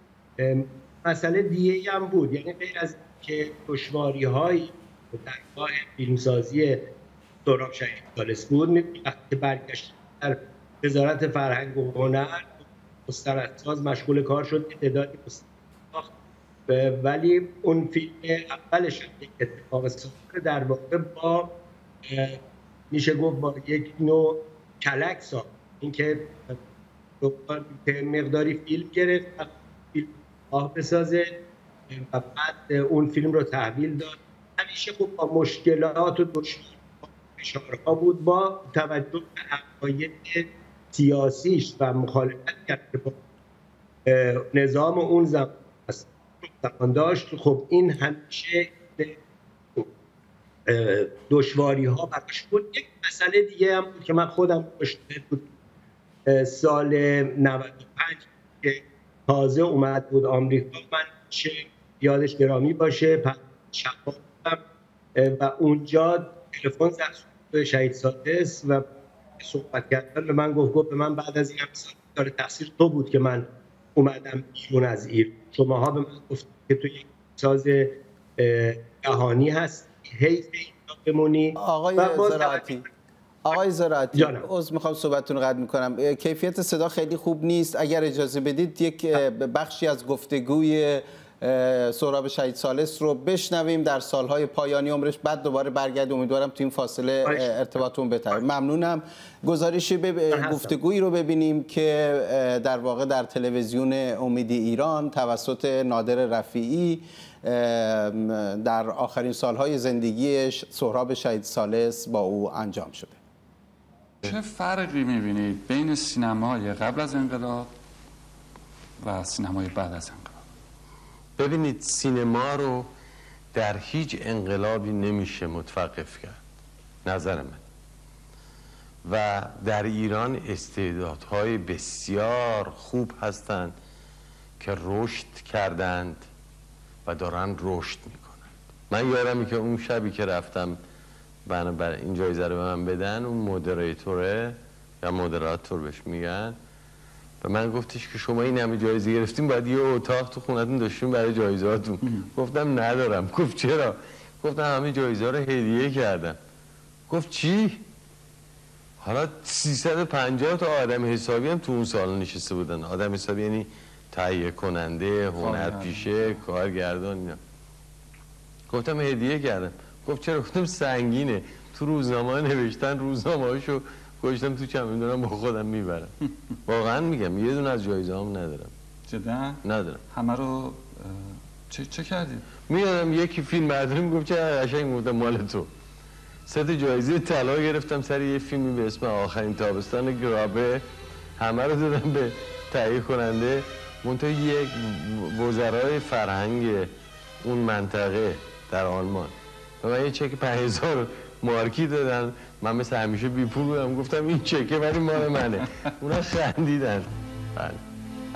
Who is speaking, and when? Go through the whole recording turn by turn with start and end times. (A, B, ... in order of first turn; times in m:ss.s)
0:00.4-0:06.9 A
0:07.4-0:16.1 A
0:16.7-0:22.4 A
0:22.9-0:26.6 A
0:27.2-0:31.3 A
0:31.9-0:43.2 A
0:44.1-0:49.1 A
0:50.7-0:55.5 A
0:56.3-1:04.6 A
1:05.1-1:08.8 A
1:09.4-1:22.8 A
1:21.6-1:22.8 B
1:23.4-1:53.2 B
1:24.1-1:24.5 A
1:37.2-1:37.5 A
1:40.3-1:40.8 A
1:54.2-1:57.7 C
1:59.0-2:00.3 C
2:01.4-2:02.9 D
2:03.5-2:06.4 D
2:07.0-2:07.6 D
2:09.0-2:13.7 D
2:14.6-2:16.3 D
2:17.0-2:20.8 D
2:21.5-2:26.6 D
2:27.4-2:36.4 D
2:37.1-2:37.8 D
2:39.0-2:47.4 D
2:45.4-2:46.4 C
2:48.7-2:56.1 D
2:56.7-2:58.7 D
2:59.1-3:02.5 C
2:59.6-3:00.0 D
3:02.7-3:05.7 D
3:06.5-3:10.8 D
3:11.4-3:16.9 D
3:17.4-3:27.8 D